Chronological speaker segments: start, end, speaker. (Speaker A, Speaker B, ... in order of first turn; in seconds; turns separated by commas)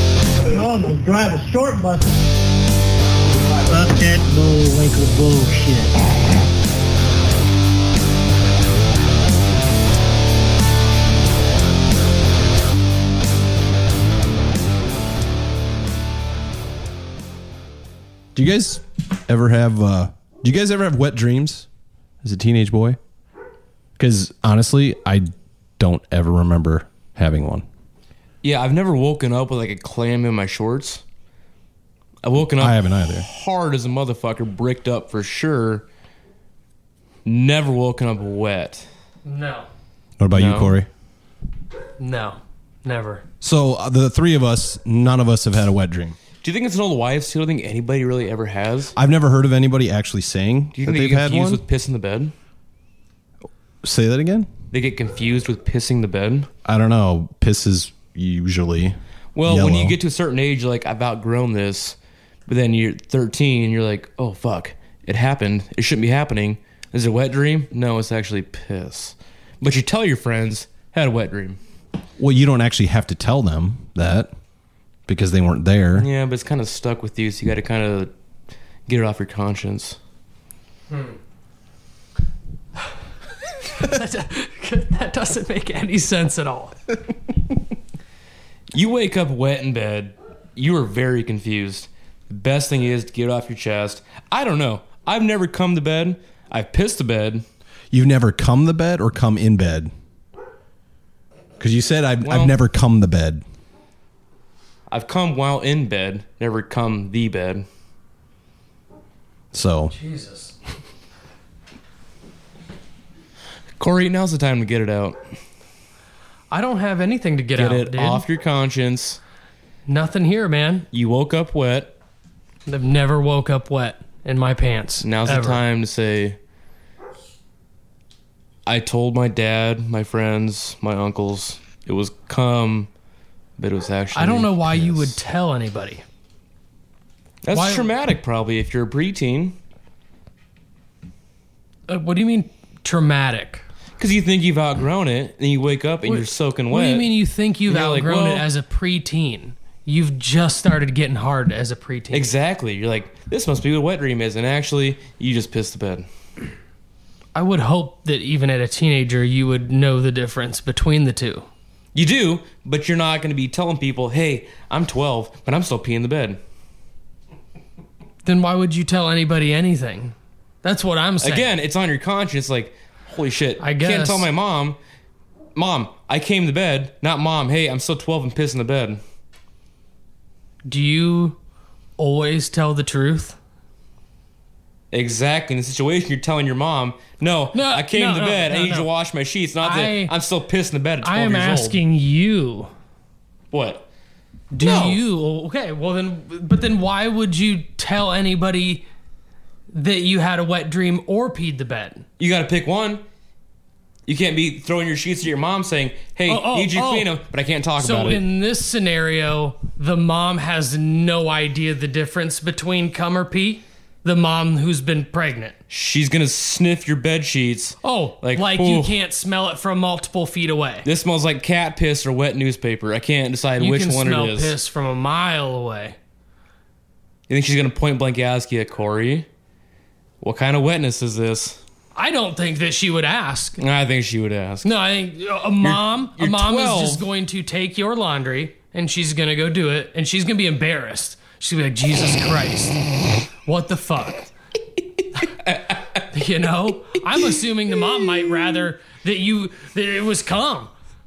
Speaker A: 0.5-2.3, Speaker A: 3.5-6.0, Speaker B: 18.3-21.7, Speaker B: 22.2-23.0, Speaker B: 24.0-27.6, Speaker C: 28.4-31.0, Speaker C: 32.2-35.8, Speaker B: 32.6-33.3, Speaker C: 37.2-38.9, Speaker D: 39.2-39.7, Speaker B: 40.2-40.9, Speaker C: 40.3-40.7, Speaker D: 42.0-43.2, Speaker B: 43.4-46.2, Speaker C: 46.4-48.9, Speaker B: 48.9-51.6, Speaker C: 50.8-52.3, Speaker B: 53.8-54.5, Speaker C: 54.7-56.5, Speaker B: 56.6-60.0, Speaker C: 59.3-71.6, Speaker B: 72.2-74.3, Speaker B: 75.1-76.1, Speaker C: 76.0-78.1, Speaker C: 78.9-80.0, Speaker D: 80.9-81.2, Speaker D: 83.7-86.8, Speaker C: 88.7-97.4, Speaker B: 97.9-99.9, Speaker B: 101.6-103.4, Speaker C: 102.2-102.5, Speaker C: 104.9-107.7, Speaker B: 109.5-109.9, Speaker D: 109.9-110.5, Speaker C: 113.8-115.2, Speaker D: 116.5-118.2, Speaker C: 117.6-119.2, Speaker D: 119.9-120.8, Speaker C: 120.9-122.0, Speaker D: 122.7-125.6, Speaker C: 125.0-126.4, Speaker C: 128.7-132.9, Speaker C: 133.6-135.2, Speaker D: 134.1-136.0, Speaker C: 137.4-139.6, Speaker D: 137.5-137.9, Speaker D: 141.9-143.6, Speaker C: 144.0-147.1, Speaker D: 146.0-152.3, Speaker C: 147.7-148.4, Speaker C: 152.1-156.1, Speaker D: 157.3-161.4, Speaker C: 161.9-166.4, Speaker D: 168.2-171.5, Speaker C: 171.2-174.8, Speaker D: 173.6-174.3, Speaker C: 175.6-179.0, Speaker D: 180.6-181.4, Speaker D: 182.0-183.4, Speaker C: 184.9-191.8, Speaker D: 187.5-188.9, Speaker D: 189.6-190.1, Speaker D: 191.0-192.7, Speaker C: 193.5-193.8, Speaker D: 194.5-198.8, Speaker C: 194.6-195.0, Speaker D: 199.7-202.0, Speaker C: 202.2-203.0, Speaker C: 204.1-208.2, Speaker D: 206.3-207.1, Speaker D: 207.8-215.6, Speaker C: 215.7-219.0, Speaker D: 217.8-220.9, Speaker C: 220.8-224.5, Speaker D: 223.6-226.0, Speaker C: 227.3-229.3, Speaker C: 230.2-231.6, Speaker D: 231.9-233.6, Speaker C: 233.6-234.7, Speaker D: 234.6-242.8, Speaker C: 235.6-237.1, Speaker D: 243.4-244.3, Speaker C: 245.4-245.8, Speaker D: 246.1-250.7